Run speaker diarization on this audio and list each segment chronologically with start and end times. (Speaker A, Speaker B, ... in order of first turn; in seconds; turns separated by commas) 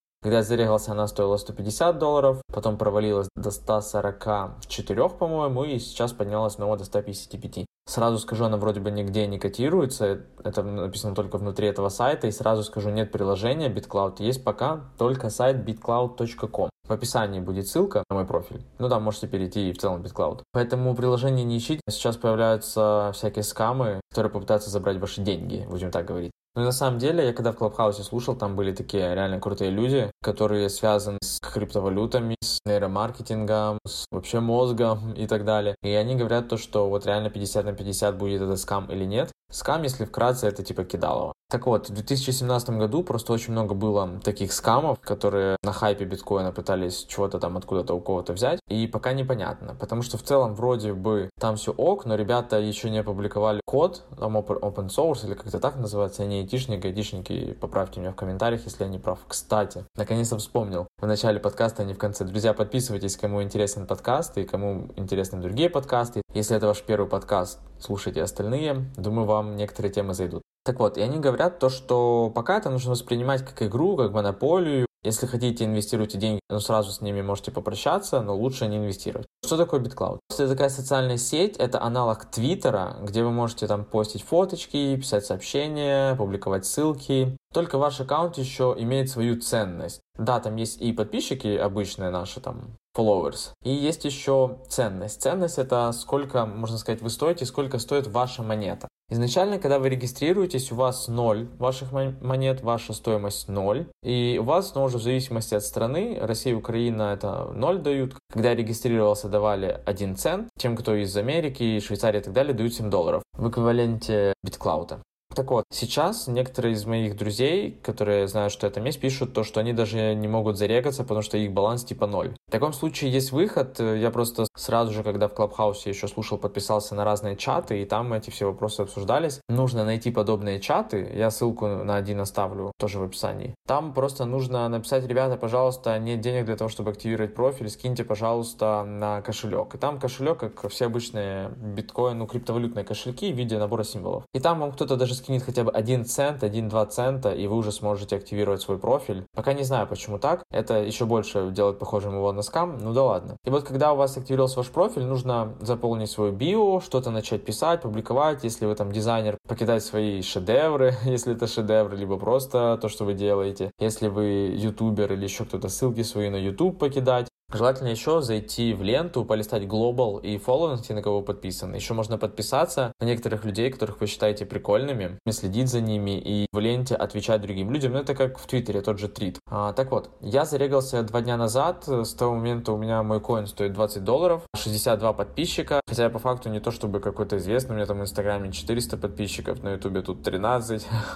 Speaker A: 0.2-190.9